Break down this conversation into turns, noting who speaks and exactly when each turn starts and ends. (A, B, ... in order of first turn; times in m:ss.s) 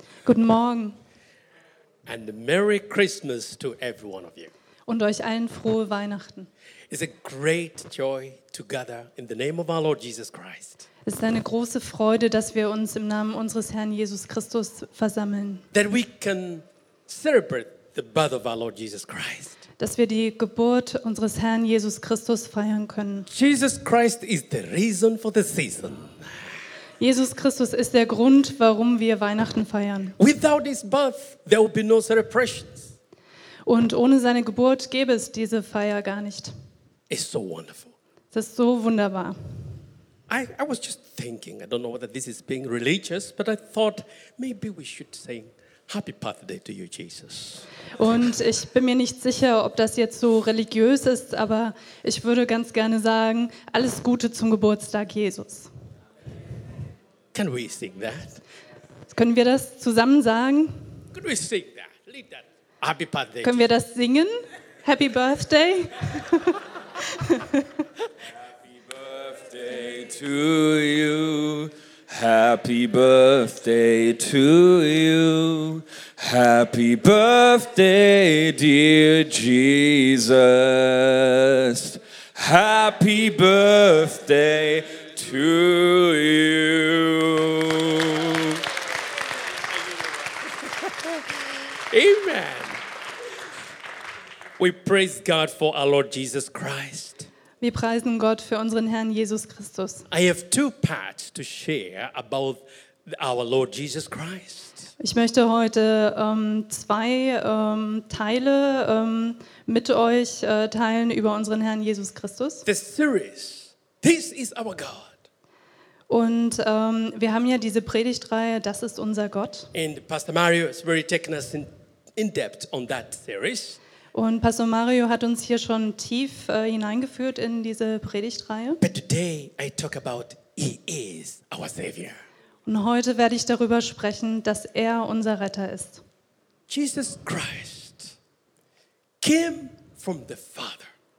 0:00.2-0:01.0 A
0:02.1-0:04.5 B
0:04.9-0:06.5 A
0:06.9-0:10.9 B
0:11.0-0:15.6 A
0:15.7-0:19.6 B
0:19.8-0:23.3 A
0:23.3-0:26.4 B
0:27.0-0:30.2 A
0:30.2-0:32.9 B
0:33.7-0:36.5 A
0:37.1-0:37.9 B
0:38.3-0:39.4 A
0:40.3-0:47.7 B
0:48.0-0:55.7 A
0:57.3-0:58.4 B
0:59.1-1:00.8 A
1:01.1-1:03.6 B
1:03.4-1:07.8 A
1:08.7-1:28.6 C
1:30.9-1:32.8 B
1:34.6-1:37.3 B
1:37.6-1:40.1 A
1:40.1-1:44.9 B
1:45.0-1:52.6 A
1:52.6-1:55.2 B
1:56.1-1:59.7 A
1:59.7-2:03.8 B
2:04.1-2:08.8 A
2:08.8-2:12.2 B
2:12.7-2:16.0 A
2:16.7-2:18.2 B
2:19.2-2:20.9 B